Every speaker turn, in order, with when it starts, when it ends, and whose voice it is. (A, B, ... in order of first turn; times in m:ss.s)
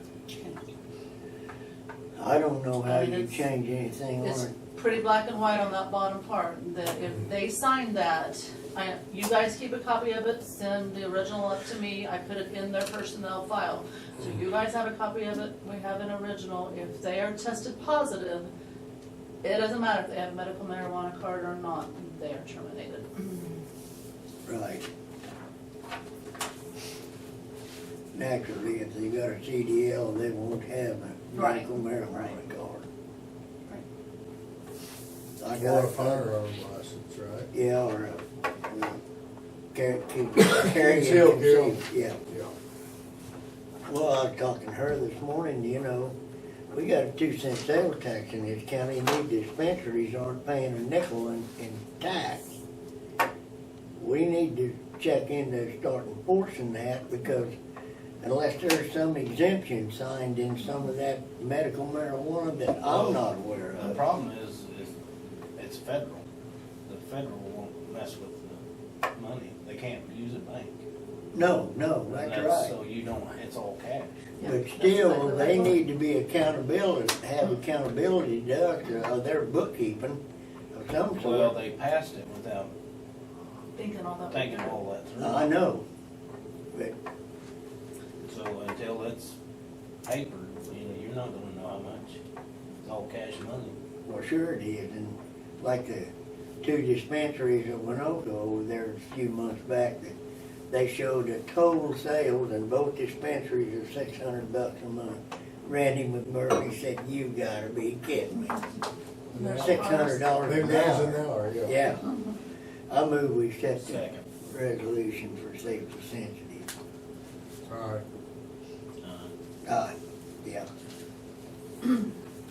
0:02.2-0:04.5 A
0:02.8-0:03.4 B
0:04.2-0:18.5 B
0:19.4-0:23.6 B
0:24.4-0:24.8 A
0:28.1-0:32.8 A
0:31.3-0:31.7 B
0:35.4-0:36.3 A
0:35.5-0:37.5 C
0:37.5-0:39.0 A
0:39.7-0:42.2 A
0:40.4-0:42.6 C
0:43.8-0:46.1 A
0:46.7-0:52.6 A
0:54.0-0:57.6 A
0:58.2-1:04.0 A
1:02.8-1:04.9 D
1:05.6-1:06.2 D
1:06.9-1:08.6 D
1:09.1-1:10.7 D
1:11.3-1:12.7 A
1:12.1-1:14.2 D
1:14.4-1:15.8 B
1:14.4-1:20.2 A
1:20.7-1:21.5 A
1:21.2-1:22.7 D
1:23.7-1:24.8 B
1:24.3-1:25.5 D
1:25.2-1:25.8 A
1:26.7-1:27.0 A
1:28.2-1:29.3 D
1:30.0-1:32.2 D
1:32.8-1:33.7 D
1:34.0-1:36.1 A
1:36.6-1:40.1 A
1:40.7-1:48.6 A
1:49.3-1:49.8 C
1:49.3-1:50.3 B
1:49.4-1:52.1 A
1:50.4-1:51.8 C
1:52.9-1:56.7 A
1:53.8-1:54.2 D
1:57.7-1:58.0 C
1:59.0-1:59.3 D
1:59.6-2:00.7 A